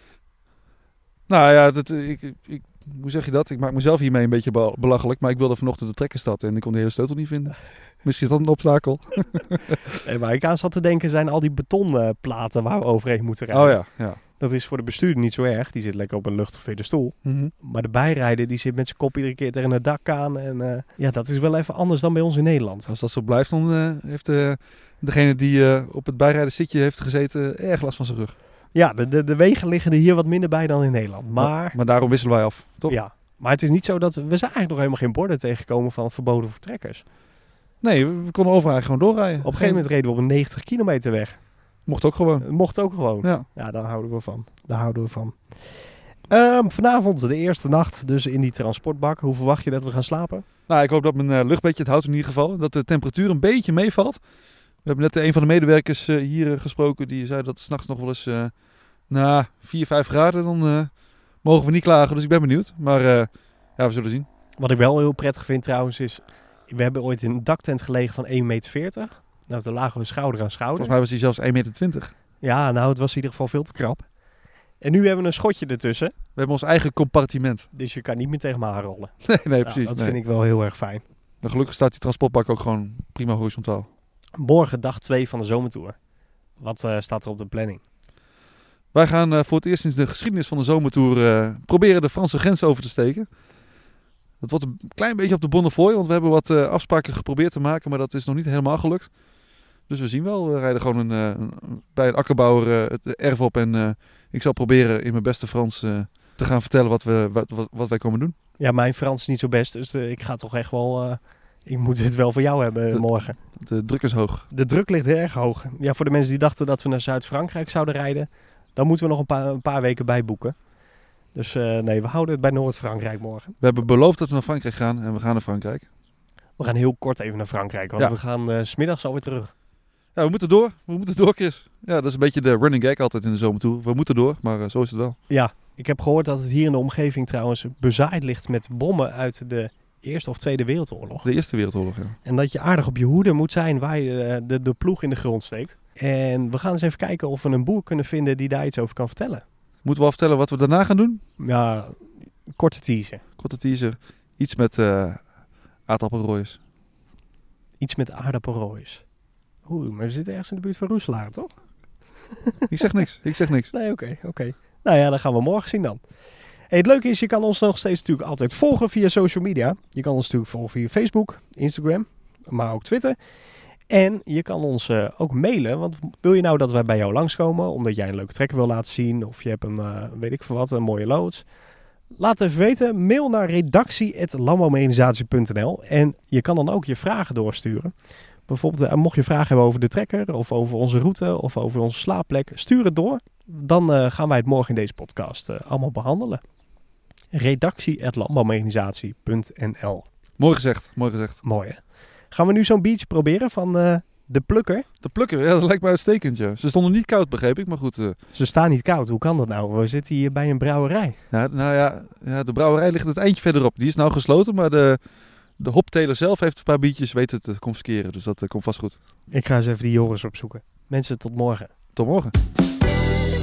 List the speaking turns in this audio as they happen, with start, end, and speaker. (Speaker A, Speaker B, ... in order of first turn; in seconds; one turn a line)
Speaker A: 1.3-9.8
Speaker B: 9.9-13.8
Speaker A: 13.5-14.2
Speaker B: 14.4-22.9
Speaker A: 17.2-17.5
Speaker A: 22.9-28.3
Speaker B: 28.7-31.8
Speaker A: 31.4-33.0
Speaker B: 32.9-37.0
Speaker A: 37.8-39.8
Speaker B: 39.4-41.4
Speaker A: 41.9-42.5
Speaker B: 42.4-50.4
Speaker A: 50.7-54.2
Speaker A: 54.8-58.5
Speaker A: 59.1-60.9
Speaker A: 61.4-64.3
Speaker B: 64.6-70.9
Speaker A: 70.8-72.1
Speaker B: 72.4-74.0
Speaker B: 74.8-76.1
Speaker A: 76.3-77.7
Speaker B: 77.7-81.0
Speaker A: 79.2-80.2
Speaker A: 81.4-83.9
Speaker B: 84.4-86.0
Speaker B: 86.6-87.8
Speaker A: 88.9-93.3
Speaker A: 94.4-99.1
Speaker A: 99.9-108.3
Speaker B: 108.6-113.4
Speaker A: 113.6-114.5
Speaker B: 114.5-120.5
Speaker B: 121.3-123.6
Speaker A: 123.6-125.8
Speaker B: 126.6-129.5
Speaker A: 130.2-135.2
Speaker B: 135.3-141.2
Speaker A: 141.2-142.2
Speaker B: 142.2-149.4
Speaker A: 149.8-151.2
Speaker B: 151.4-153.2
Speaker A: 153.4-155.2
Speaker A: 155.9-156.6
Speaker B: 157.8-159.0
Speaker B: 159.7-161.5
Speaker A: 162.7-163.7
Speaker B: 163.7-166.0
Speaker B: 166.7-173.2
Speaker B: 173.9-181.4
Speaker B: 182.2-187.9
Speaker B: 188.5-196.4
Speaker B: 197.3-200.0
Speaker A: 200.4-201.4
Speaker B: 201.4-201.8
Speaker B: 202.3-204.8
Speaker A: 205.0-208.2
Speaker B: 208.3-211.2
Speaker A: 211.3-215.0
Speaker A: 215.6-218.9
Speaker B: 219.3-221.7
Speaker A: 221.9-222.3